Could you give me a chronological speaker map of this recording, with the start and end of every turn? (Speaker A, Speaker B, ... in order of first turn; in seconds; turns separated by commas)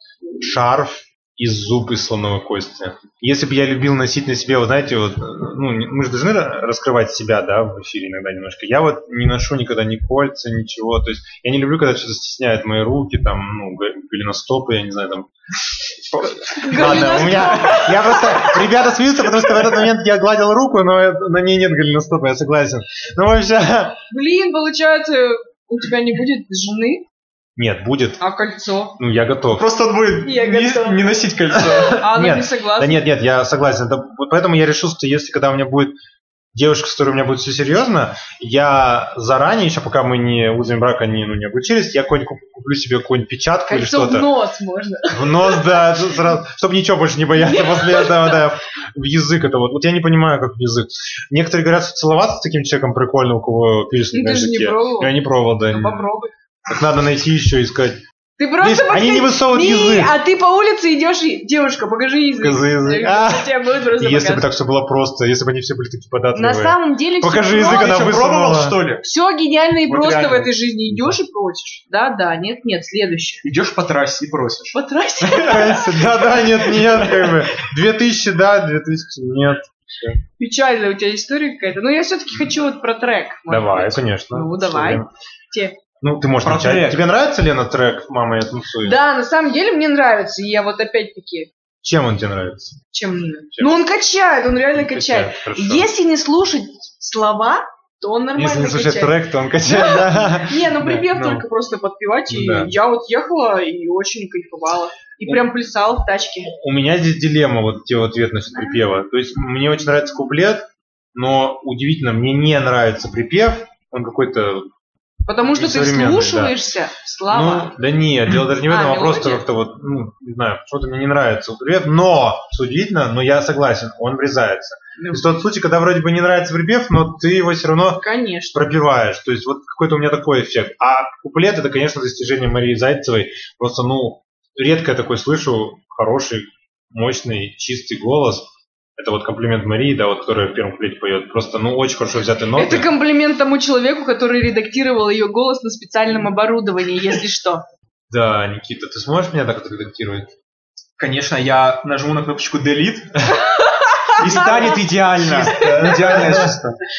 Speaker A: 0.4-15.3, Speaker B: 16.1-17.8, Speaker C: 16.4-18.7, Speaker A: 16.7-24.0, Speaker C: 24.1-27.0, Speaker A: 27.6-28.2, Speaker C: 28.2-28.9, Speaker A: 29.0-29.6, Speaker B: 29.6-32.0, Speaker C: 30.2-33.1, Speaker A: 31.5-35.9, Speaker A: 36.5-44.3, Speaker C: 43.7-46.0, Speaker A: 45.1-56.1, Speaker C: 47.4-48.5, Speaker C: 54.1-56.3, Speaker A: 56.7-58.0, Speaker C: 58.4-64.5, Speaker A: 58.6-60.1, Speaker A: 62.4-68.8, Speaker C: 66.3-68.0, Speaker B: 67.5-69.0, Speaker C: 69.0-73.5, Speaker B: 69.9-70.7, Speaker A: 70.9-71.2, Speaker B: 73.4-77.5, Speaker C: 74.7-76.0, Speaker A: 75.4-80.2, Speaker C: 80.4-85.8, Speaker A: 83.5-85.1, Speaker A: 86.0-89.0, Speaker B: 86.4-87.0, Speaker C: 88.8-91.5, Speaker A: 91.8-92.8, Speaker C: 92.9-106.5, Speaker A: 94.8-95.9, Speaker A: 98.4-101.5, Speaker A: 102.3-102.7, Speaker A: 106.5-114.7, Speaker C: 115.3-117.7, Speaker A: 115.5-116.5, Speaker A: 117.3-142.9, Speaker C: 118.7-119.4, Speaker C: 125.0-125.3, Speaker C: 128.0-128.7, Speaker C: 142.6-147.6, Speaker A: 148.1-150.3, Speaker B: 151.0-153.2, Speaker C: 153.3-154.8, Speaker B: 154.2-156.8, Speaker A: 155.2-156.6, Speaker C: 155.5-156.5